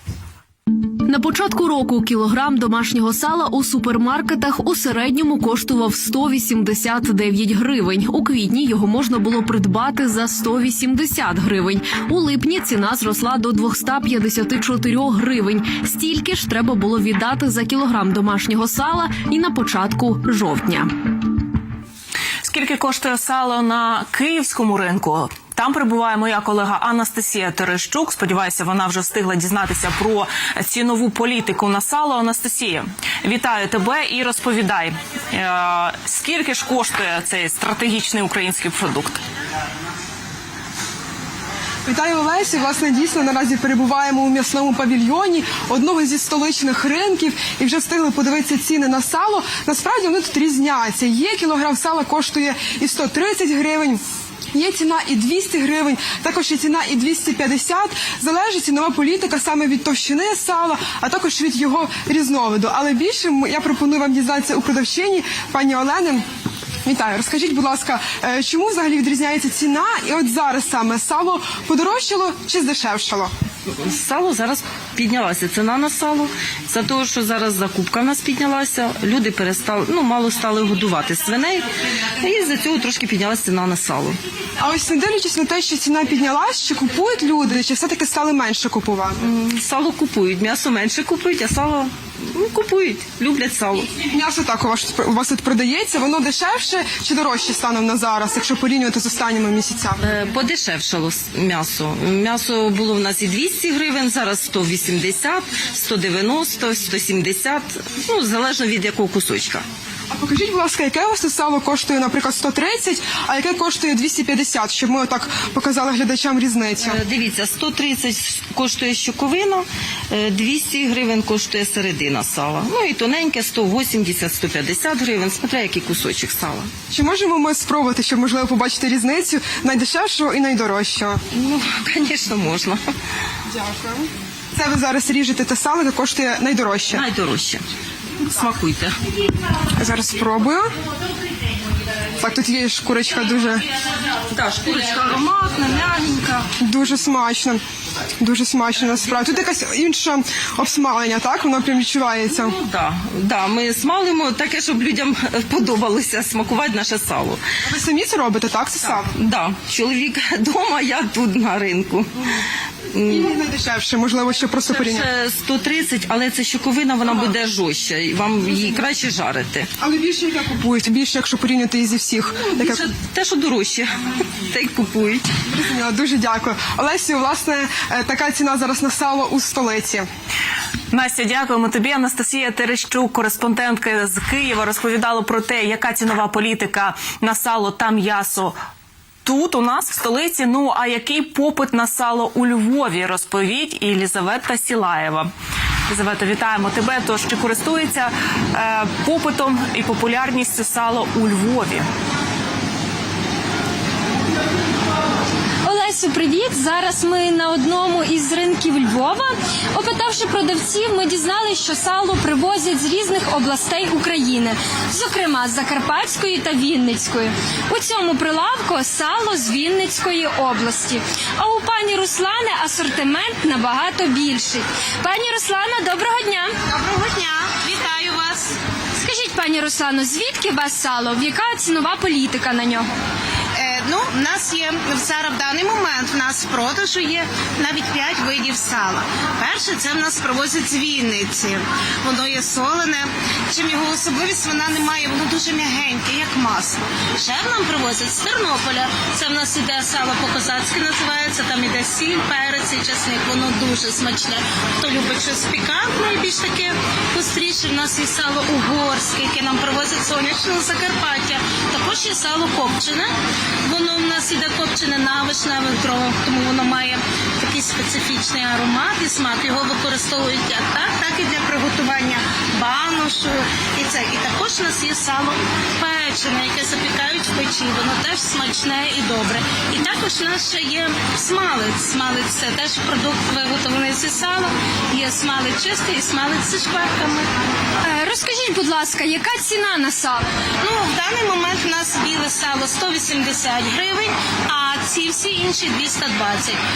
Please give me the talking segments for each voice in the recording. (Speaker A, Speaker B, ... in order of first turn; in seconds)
Speaker A: 1.0-20.9
Speaker B: 22.4-39.2, 180.9-188.5, 189.2-195.3, 195.9-201.8
Speaker C: 41.8-54.0, 54.5-66.2, 66.8-73.3, 84.6-89.2, 94.1-100.0, 110.1-117.0, 126.9-131.2, 133.5-137.0, 139.7-140.7, 142.2-143.7, 146.6-147.6, 148.2-152.6, 157.6-159.1, 163.0-165.1, 169.8-172.9, 175.4-180.1
Speaker D: 73.7-84.2, 89.2-93.9, 100.0-109.7, 116.8-126.7, 131.3-132.8, 136.9-137.6, 138.2-139.0, 144.2-146.5, 152.3-157.4, 159.1-162.3, 162.9-163.3, 164.6-169.7, 172.5-175.3
Speaker E: 205.6-226.5, 229.0-232.9, 287.8-290.2
Speaker F: 226.7-228.6, 233.6-263.1, 263.6-287.3, 290.6-296.6